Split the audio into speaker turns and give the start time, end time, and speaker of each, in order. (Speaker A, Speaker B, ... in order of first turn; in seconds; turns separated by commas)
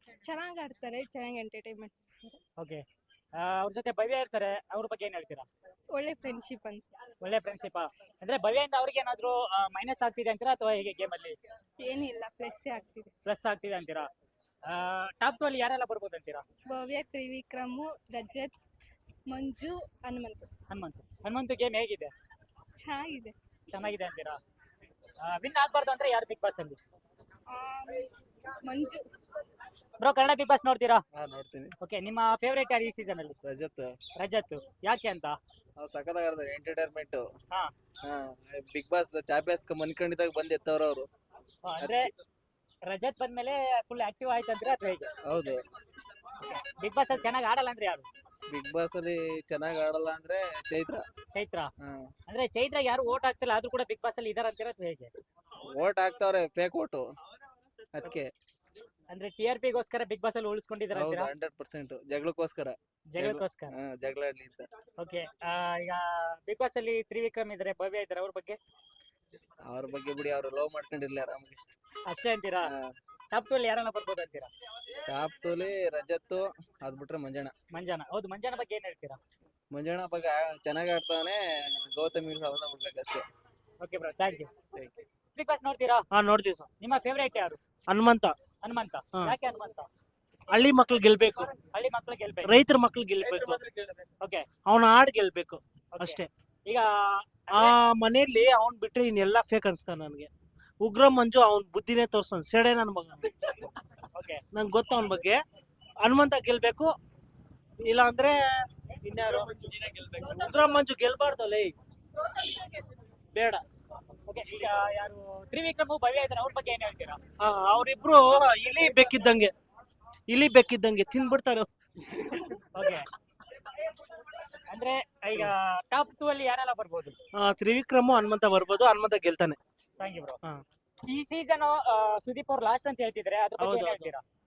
Speaker A: 0.2-2.3, Speaker B: 3.4-5.5, Speaker A: 5.9-6.9, Speaker B: 7.2-11.4, Speaker A: 11.8-13.1, Speaker B: 13.3-14.1, Speaker B: 14.7-16.4, Speaker A: 16.7-18.5, Speaker A: 19.3-20.5, Speaker B: 20.7-22.1, Speaker A: 22.8-23.3, Speaker B: 23.7-24.4, Speaker B: 25.2-26.8, Speaker A: 27.5-28.1, Speaker A: 28.7-29.0, Speaker B: 30.0-31.0, Speaker C: 31.1-31.8, Speaker B: 31.8-33.4, Speaker C: 33.4-34.0, Speaker B: 34.2-35.4, Speaker C: 35.8-37.3, Speaker C: 38.0-41.1, Speaker B: 41.6-42.1, Speaker C: 41.8-42.1, Speaker B: 42.9-45.1, Speaker C: 45.3-45.6, Speaker B: 46.4-48.1, Speaker C: 48.5-51.0, Speaker B: 51.3-51.7, Speaker C: 51.8-52.1, Speaker B: 52.3-55.1, Speaker C: 55.6-57.1, Speaker C: 57.9-58.3, Speaker B: 59.1-61.3, Speaker C: 60.9-64.7, Speaker B: 63.1-63.7, Speaker B: 65.0-68.6, Speaker C: 69.7-71.6, Speaker B: 72.1-72.7, Speaker C: 72.6-72.9, Speaker B: 73.3-74.5, Speaker C: 75.1-77.5, Speaker B: 77.7-79.2, Speaker C: 79.7-83.2, Speaker B: 83.8-84.5, Speaker B: 85.3-86.1, Speaker D: 86.1-86.7, Speaker B: 86.8-87.6, Speaker D: 87.9-88.3, Speaker B: 88.6-89.9, Speaker D: 90.5-91.5, Speaker B: 91.6-92.6, Speaker D: 92.4-93.6, Speaker B: 94.2-94.5, Speaker D: 94.7-96.3, Speaker B: 95.9-97.8, Speaker D: 97.5-100.3, Speaker D: 100.8-103.5, Speaker B: 104.1-104.4, Speaker D: 104.5-105.4, Speaker D: 106.0-106.9, Speaker D: 107.8-111.8, Speaker D: 113.3-113.6, Speaker B: 114.3-117.2, Speaker D: 117.4-119.5, Speaker D: 120.3-121.7, Speaker B: 122.7-123.1, Speaker B: 124.7-127.2, Speaker D: 127.3-129.6, Speaker B: 130.0-130.4, Speaker B: 131.0-134.2, Speaker D: 133.6-134.1